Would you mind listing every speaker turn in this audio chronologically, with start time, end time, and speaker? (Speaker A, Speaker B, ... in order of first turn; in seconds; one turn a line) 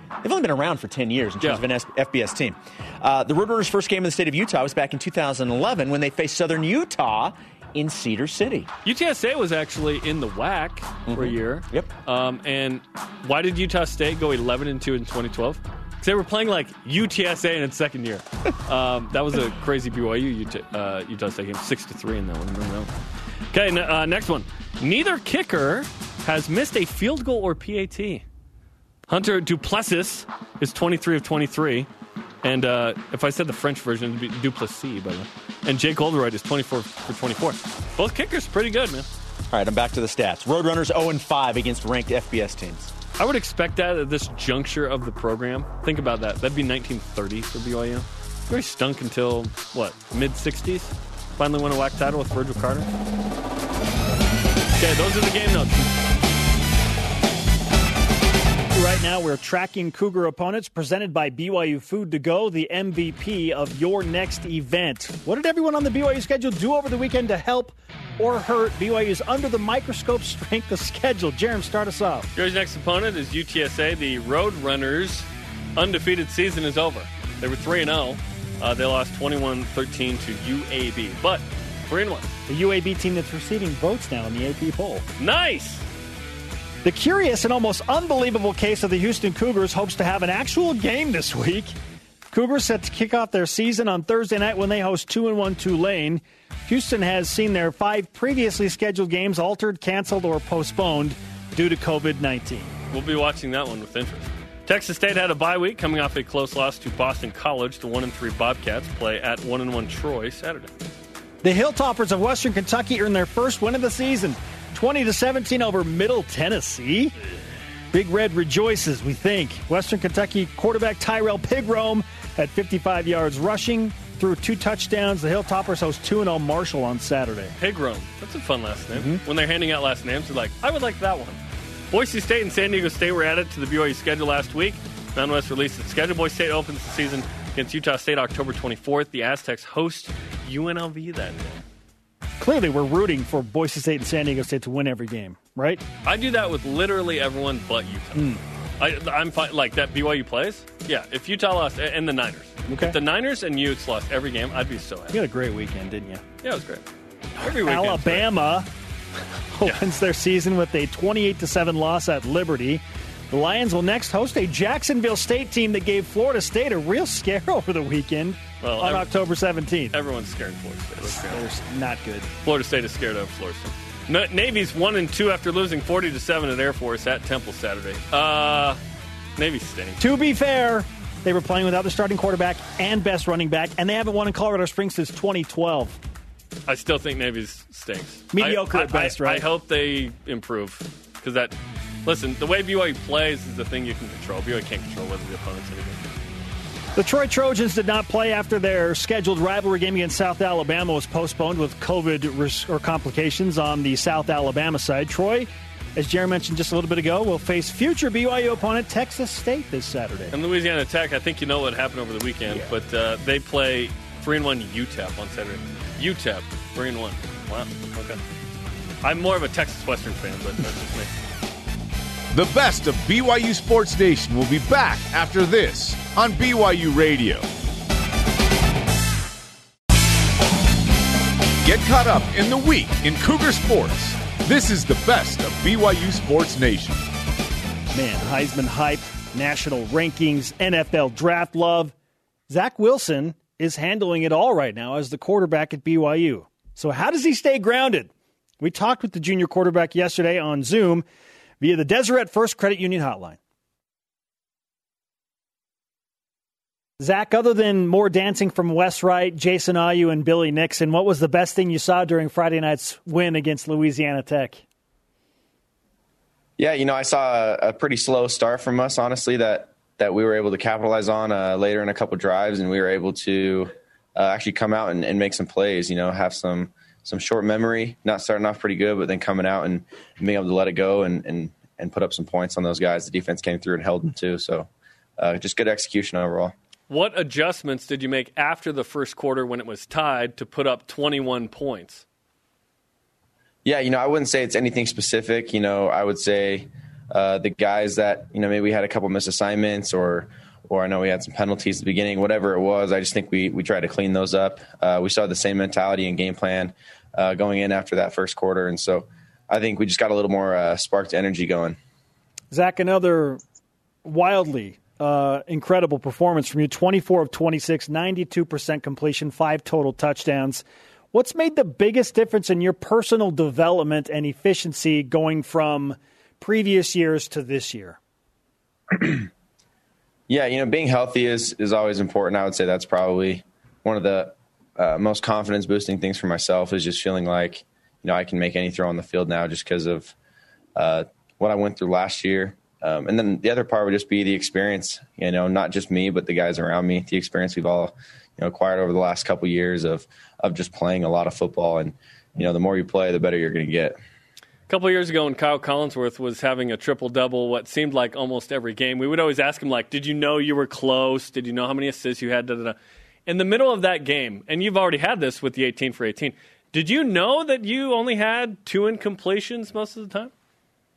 Speaker A: 0.2-8.7
Speaker B: 8.8-22.9
Speaker A: 11.1-11.9
Speaker B: 23.5-28.2
Speaker B: 29.1-31.9
Speaker B: 32.4-39.1
Speaker A: 39.5-42.9
Speaker B: 43.2-52.9
Speaker B: 54.8-55.9
Speaker C: 58.7-72.3
Speaker B: 72.4-82.3
Speaker C: 82.5-85.0
Speaker B: 85.2-85.8
Speaker C: 86.8-91.7
Speaker C: 92.3-102.7
Speaker B: 102.9-110.7
Speaker C: 111.4-117.1
Speaker C: 117.9-127.5
Speaker B: 127.6-131.4
Speaker C: 128.9-129.2
Speaker B: 131.9-141.6
Speaker C: 142.4-145.8
Speaker B: 146.0-155.2
Speaker C: 152.7-153.0
Speaker C: 155.1-156.2
Speaker B: 156.4-156.8
Speaker B: 157.4-158.3
Speaker C: 157.5-158.7
Speaker C: 159.6-169.9
Speaker B: 168.6-169.1
Speaker B: 169.9-171.4
Speaker C: 171.1-172.3
Speaker B: 172.4-178.8
Speaker B: 179.4-180.0
Speaker C: 180.0-186.0
Speaker B: 186.7-196.0
Speaker C: 188.3-189.4
Speaker C: 197.0-210.3
Speaker B: 210.3-218.2
Speaker B: 219.0-221.1
Speaker D: 222.3-227.5
Speaker D: 231.6-237.1
Speaker C: 237.9-241.9
Speaker C: 242.5-251.0
Speaker C: 251.6-253.4
Speaker C: 257.0-264.6
Speaker E: 266.6-284.7
Speaker E: 285.2-286.5
Speaker B: 286.9-292.1
Speaker E: 293.6-311.8
Speaker C: 312.5-313.4
Speaker C: 314.1-328.0
Speaker E: 328.9-329.3
Speaker E: 330.3-340.1
Speaker E: 340.8-354.0
Speaker B: 354.7-370.3